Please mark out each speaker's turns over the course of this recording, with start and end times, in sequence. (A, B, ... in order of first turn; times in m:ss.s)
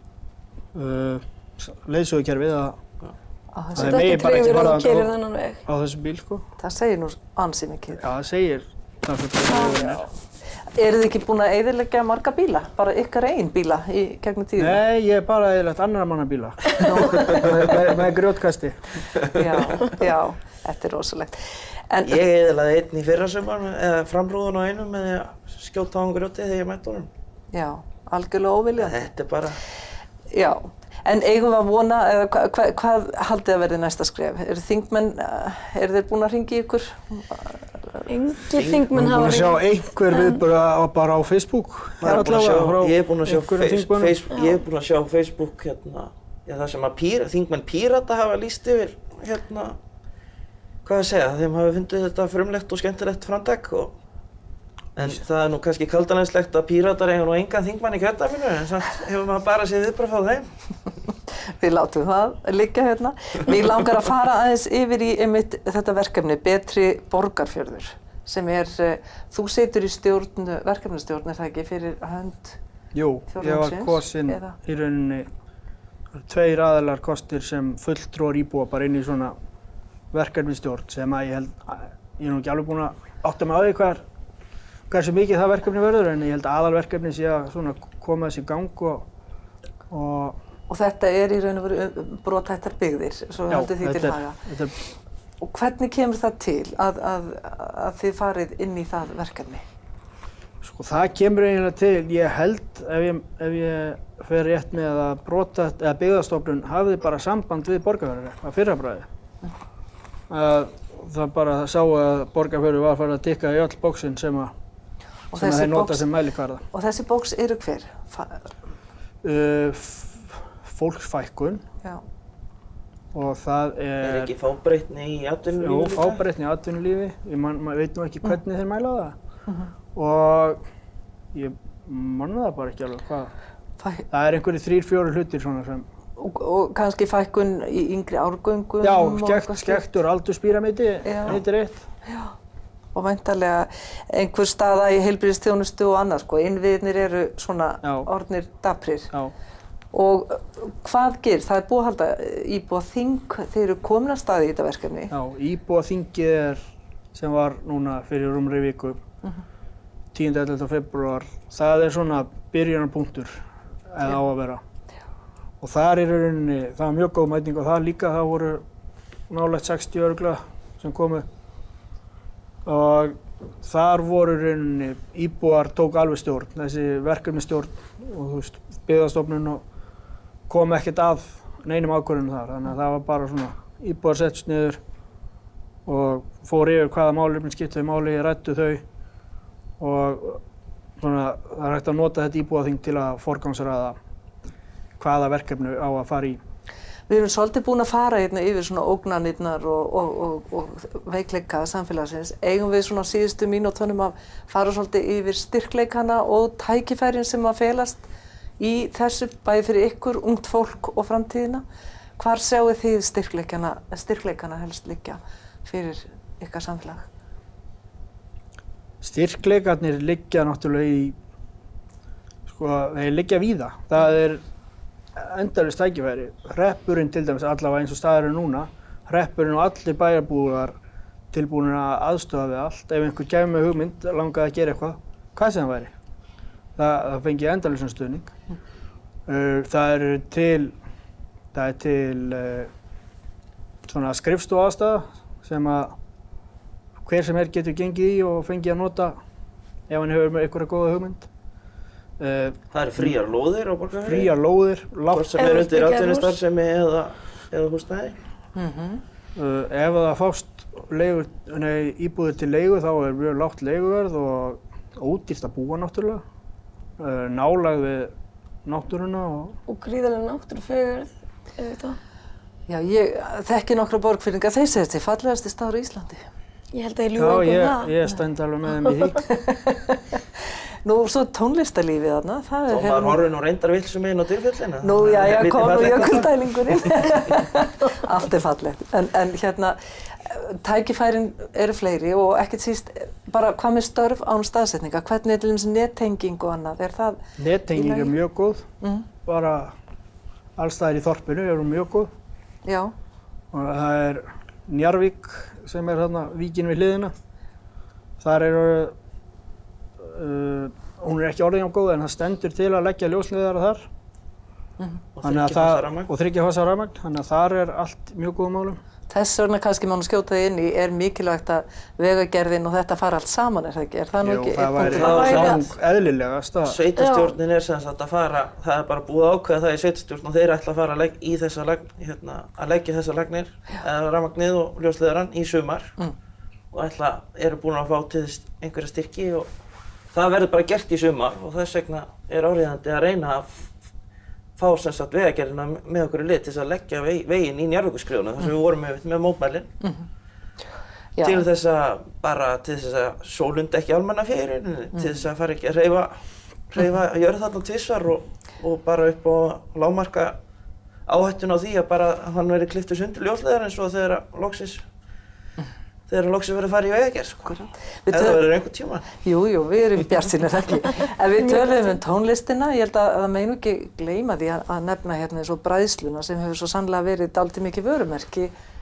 0:00.7-0:02.8 A
0:03.5-0:04.6 B
0:03.8-0:05.1 A
0:03.8-0:05.6 C
0:05.7-0:06.4 A
0:06.6-0:08.0 B
0:08.0-0:10.0 A
0:09.6-0:10.0 B
0:10.7-0:14.8 B
0:14.6-0:19.0 A
0:16.8-0:17.5 B
0:19.2-0:19.9 D
0:19.3-0:22.2 B
0:22.0-0:27.1 D
0:27.5-0:29.1 B
0:28.8-0:29.6 D
0:30.3-0:38.1 B
0:38.1-0:40.4 C
0:38.9-0:44.2 A
0:42.0-0:49.8 D
0:42.0-0:42.3 B
0:44.3-0:44.6 C
0:50.8-0:54.0 D
0:55.0-1:00.5 D
1:01.5-1:12.6 B
1:12.9-1:15.3 A
1:13.3-1:14.6 B
1:16.1-1:19.4 A
1:20.1-1:24.0 A
1:24.9-1:29.0 A
1:29.9-1:30.4 A
1:30.7-1:34.4 B
1:33.5-1:34.8 A
1:35.4-1:39.6 B
1:40.6-1:49.1 A
1:50.3-1:54.5 A
1:55.3-1:56.1 B
1:55.3-1:56.6 A
1:56.7-1:58.5 B
1:59.2-2:01.6 A
2:03.1-2:04.3 A
2:04.0-2:06.2 D
2:05.6-2:09.2 A
2:09.5-2:09.7 B
2:10.0-2:10.6 A
2:11.3-2:13.3 A
2:14.1-2:15.9 A
2:16.2-2:19.8 B
2:18.8-2:21.9 A
2:21.0-2:21.4 B
2:22.1-2:22.3 B
2:23.0-2:29.1 B
2:27.8-2:28.1 A
2:29.9-2:35.1 B
2:35.1-2:39.0 A
2:40.1-2:44.6 A
2:45.6-2:48.6 A
2:49.3-2:51.3 A
2:52.6-2:59.6 A
3:00.5-3:04.8 A
3:05.9-3:08.8 A
3:09.8-3:10.4 A
3:11.0-3:14.0 A
3:15.0-3:16.4 A
3:17.1-3:28.1 B
3:28.6-3:31.6 B
3:32.2-3:37.1 B
3:39.0-3:41.2 A
3:42.5-3:44.4 A
3:45.2-3:50.8 A
3:51.3-3:55.9 A
3:56.8-3:58.3 A
3:59.3-4:00.8 A
4:01.5-4:02.7 A
4:03.8-4:06.0 A
4:07.0-4:09.2 A
4:09.9-4:11.3 A
4:12.2-4:13.2 A
4:12.7-4:14.3 D
4:14.1-4:15.5 A
4:15.1-4:18.2 D
4:15.4-4:16.4 C
4:18.6-4:19.0 B
4:19.4-4:26.2 A
4:27.0-4:28.1 A
4:28.6-4:29.6 A
4:29.7-4:32.0 C
4:32.7-4:36.3 B
4:36.7-4:37.9 C
4:37.2-4:39.2 A
4:39.3-4:43.2 B
4:42.7-4:47.1 D
4:44.8-4:58.2 B
4:57.4-4:58.7 A
4:58.8-4:59.1 B
4:59.2-4:59.7 A
5:00.6-5:02.1 A
5:02.7-5:02.9 B
5:03.5-5:07.1 A
5:08.2-5:08.9 A
5:10.0-5:13.9 A
5:15.2-5:16.1 D
5:15.2-5:18.8 A
5:19.1-5:25.5 B
5:24.2-5:26.8 A
5:24.8-5:25.7 D
5:25.0-5:25.6 C
5:26.6-5:36.0 D
5:27.0-5:27.3 C
5:36.7-5:39.5 D
5:40.1-5:43.7 D
5:44.6-5:49.7 D
5:49.8-5:50.1 B
5:51.2-5:51.5 B
5:51.2-5:56.2 D
5:55.0-5:55.2 B
5:56.7-6:00.4 D
6:01.1-6:04.8 D
6:06.1-6:09.1 D
6:07.5-6:08.4 B
6:09.2-6:18.5 B